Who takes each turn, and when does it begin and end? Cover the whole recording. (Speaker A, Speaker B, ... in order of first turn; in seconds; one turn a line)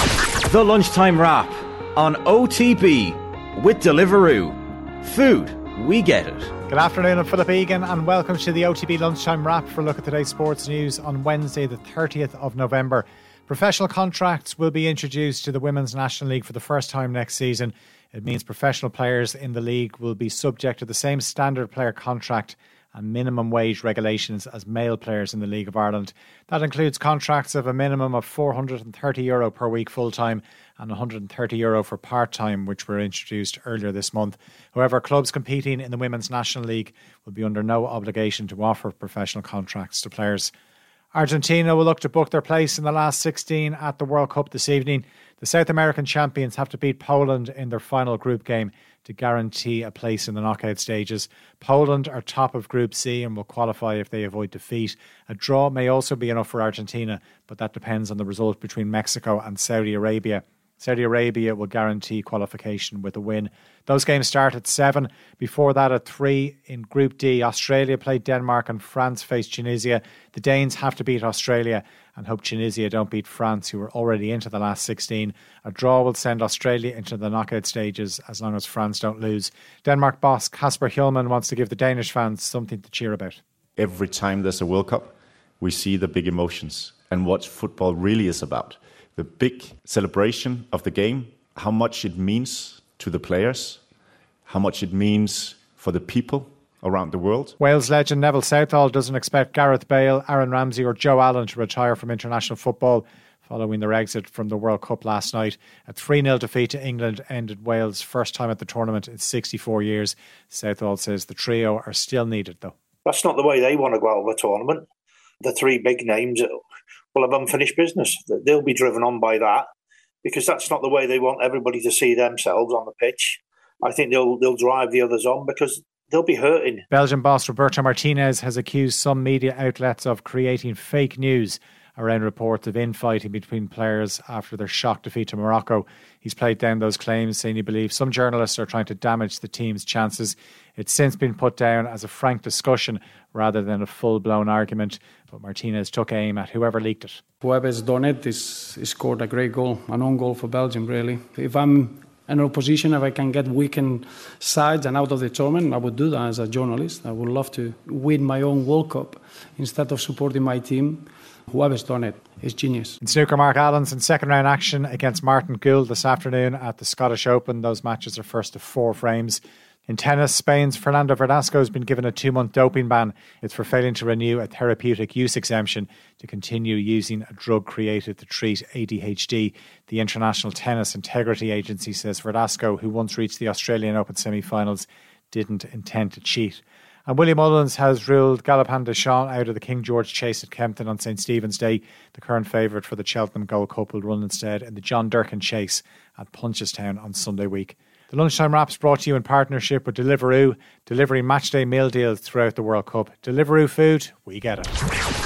Speaker A: 0.5-6.5
Speaker B: 6.7-40.5
Speaker B: 41.1-83.4
Speaker C: 83.8-93.8
Speaker C: 94.5-97.6
Speaker B: 97.6-112.7
Speaker D: 113.0-114.8
Speaker D: 115.4-116.6
Speaker D: 117.2-119.7
Speaker D: 120.2-126.8
Speaker B: 126.9-147.2
Speaker E: 147.4-163.0
Speaker B: 163.0-204.7